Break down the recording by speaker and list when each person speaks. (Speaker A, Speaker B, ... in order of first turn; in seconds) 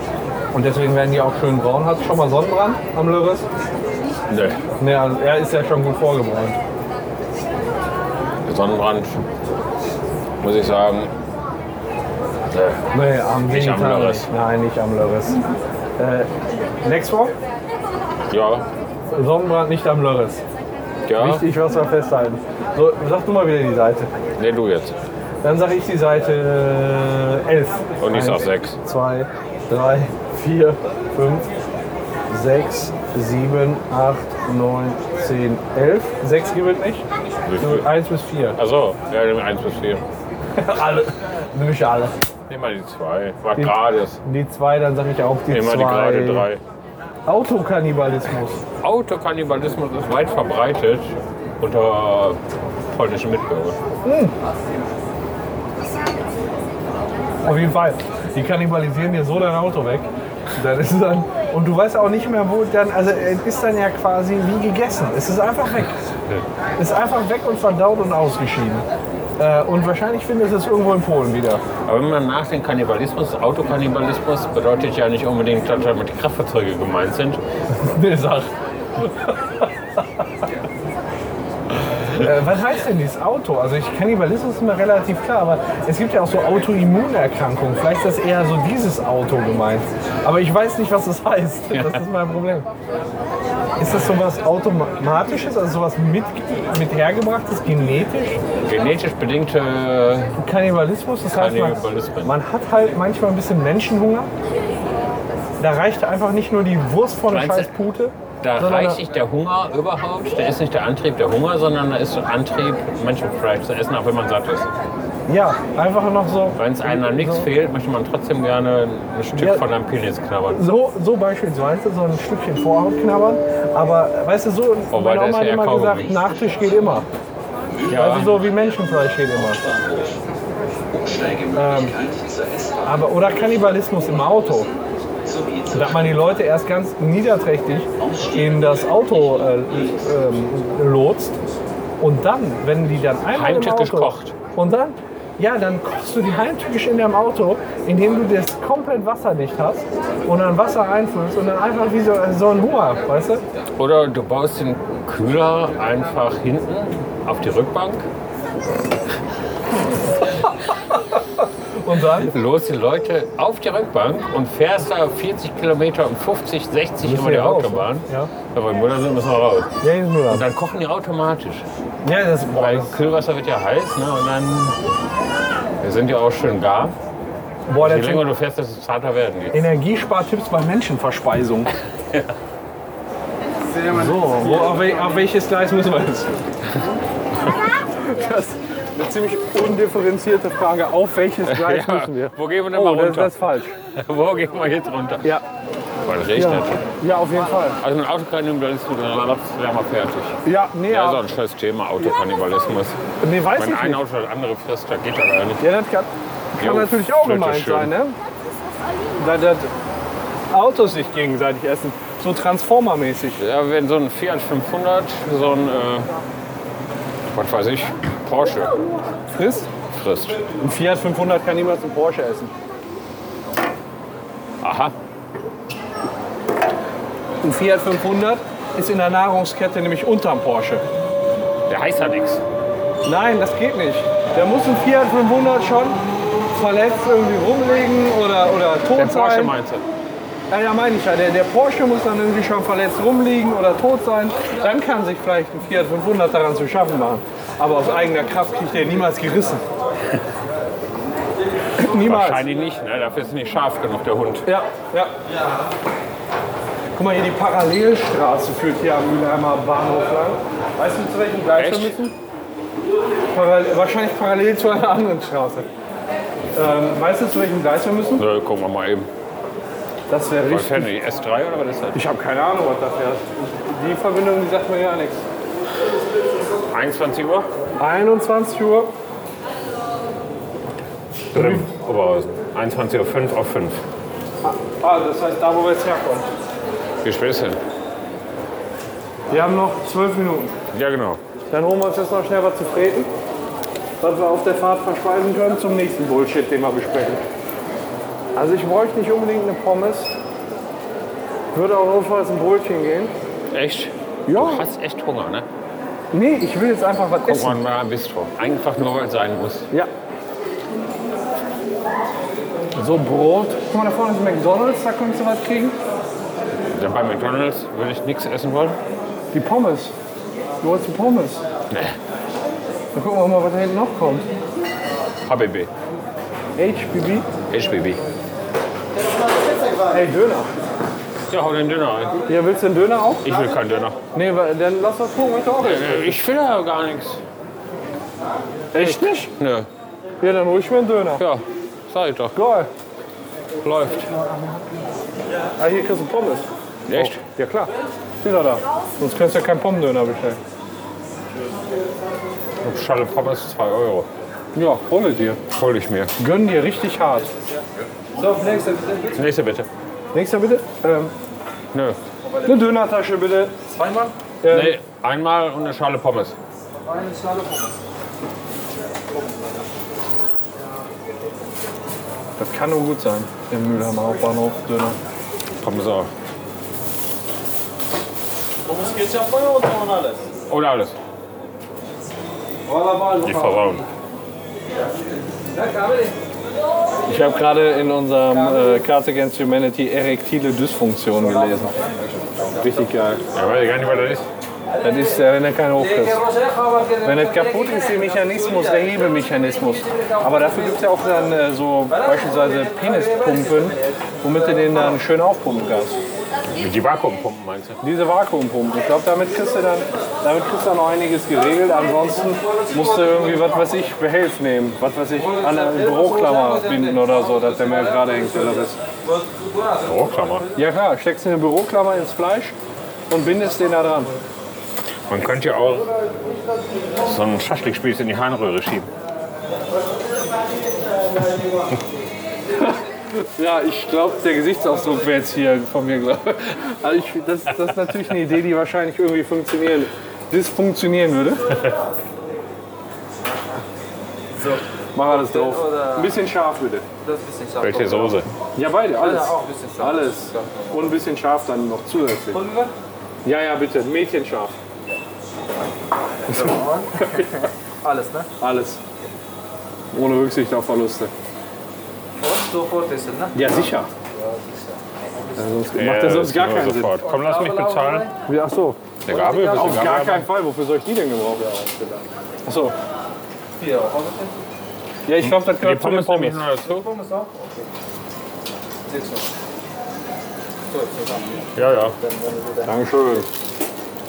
Speaker A: 0.5-3.5, 4.8-6.6, 12.9-15.4, 16.0-16.3, 16.8-17.4, 19.1-20.4, 21.2-24.1, 25.4-31.5, 32.3-37.1, 37.6-38.6, 40.5-42.1, 43.6-46.5, 47.3-48.6, 54.0-54.3, 57.5-66.0, 66.8-68.8, 69.4-71.6, 77.7-79.7, 82.1-92.7, 93.8-98.4, 100.4-104.3, 105.6-109.0, 115.3-117.5, 119.4-119.6, 120.5-127.1, 127.9-129.7, 131.5-132.0, 132.8-134.7, 135.7-141.4, 142.0-153.4, 161.8-162.3, 167.0-168.3, 169.8-170.4, 172.0-172.9, 177.7-178.3, 179.5-181.7, 183.8-186.3, 187.9-193.7, 196.3-197.8, 200.4-201.2, 203.2-204.0, 205.6-208.2, 209.2-209.7, 210.5-213.4, 219.3-219.7, 220.6-222.5, 227.4-230.8, 233.1-239.5, 240.5-249.6, 251.8-252.4, 254.4-255.1, 256.9-262.1, 263.3-265.7, 266.5-268.2, 270.1-270.9, 271.9-275.2, 277.8-278.9, 281.3-281.7, 284.4-286.3, 289.3-290.5, 291.5-293.1, 294.0-297.2, 298.4-300.1, 301.5-303.1, 304.3-304.7, 306.1-307.6, 312.8-315.8, 319.3-319.9, 320.6-321.4, 322.9-324.3, 326.6-327.3, 329.9-330.5, 332.3-333.3, 334.1-336.2, 338.7-339.3, 340.2-341.2, 342.3-342.7, 345.6-347.7, 348.2-350.4, 354.6-355.4, 356.2-357.3, 360.1-361.1, 362.4-363.5, 364.4-364.8, 372.4-375.0, 382.7-383.5, 387.1-391.8, 392.5-393.2, 394.8-396.3, 397.0-406.0, 407.8-418.8, 420.6-422.6, 423.1-424.1, 432.6-441.6, 444.9-446.9, 448.6-452.4, 453.2-454.6, 456.3-457.4, 458.4-458.8, 459.9-461.1, 463.3-463.9, 465.4-467.0, 468.3-471.6, 472.5-472.8, 475.1-476.5, 482.6-483.3
Speaker B: 4.3-4.6, 8.4-9.2, 10.4-11.1, 12.5-12.8, 13.5-14.3, 18.3-18.7, 21.1-21.5, 24.4-25.0, 28.0-28.8, 37.5-37.9, 38.6-40.0, 42.5-44.2, 45.5-46.6, 48.8-53.8, 71.8-77.4, 98.6-100.3, 101.3-102.3, 107.3-107.7, 108.4-114.7, 116.5-120.6, 124.9-126.2, 127.9-128.4, 143.3-144.3, 153.8-158.1, 162.0-169.7, 170.3-171.7, 172.5-174.8, 175.8-176.9, 177.8-179.6, 191.4-195.4, 196.0-196.8, 197.8-203.0, 203.5-205.7, 206.6-207.9, 213.4-216.1, 217.3-218.8, 219.9-220.4, 224.6-224.9, 231.7-232.4, 238.9-239.8, 251.8-254.5, 261.6-262.0, 268.2-269.1, 270.5-272.0, 276.7-277.5, 281.3-283.8, 287.0-287.6, 290.7-291.2, 303.5-305.5, 307.2-309.7, 316.7-318.8, 321.7-321.9, 325.2-325.7, 327.5-328.0, 331.3-332.2, 333.2-334.0, 335.6-337.2, 338.8-339.7, 341.1-342.4, 343.6-344.1, 346.9-347.2, 352.6-354.1, 355.5-356.1, 359.1-359.7, 361.7-362.0, 364.5-366.4, 375.6-376.1, 380.5-381.0, 383.2-383.9, 393.3-394.3, 406.5-407.8, 419.8-420.5, 425.1-425.9, 427.0-428.9, 447.6-448.3, 465.7-468.1, 469.1-470.3, 475.2-477.0, 481.6-482.0
Speaker C: 126.4-126.7, 129.6-130.2, 130.9-132.9, 135.2-135.9, 138.0-139.7
Speaker D: 358.2-359.1, 363.7-364.1, 366.9-367.7, 378.8-380.2, 385.8-386.1, 447.0-448.2, 449.2-450.0, 452.4-452.7, 456.3-458.3, 462.2-463.3, 467.2-468.0, 473.6-474.3, 476.8-477.7, 478.9-479.2, 480.7-481.4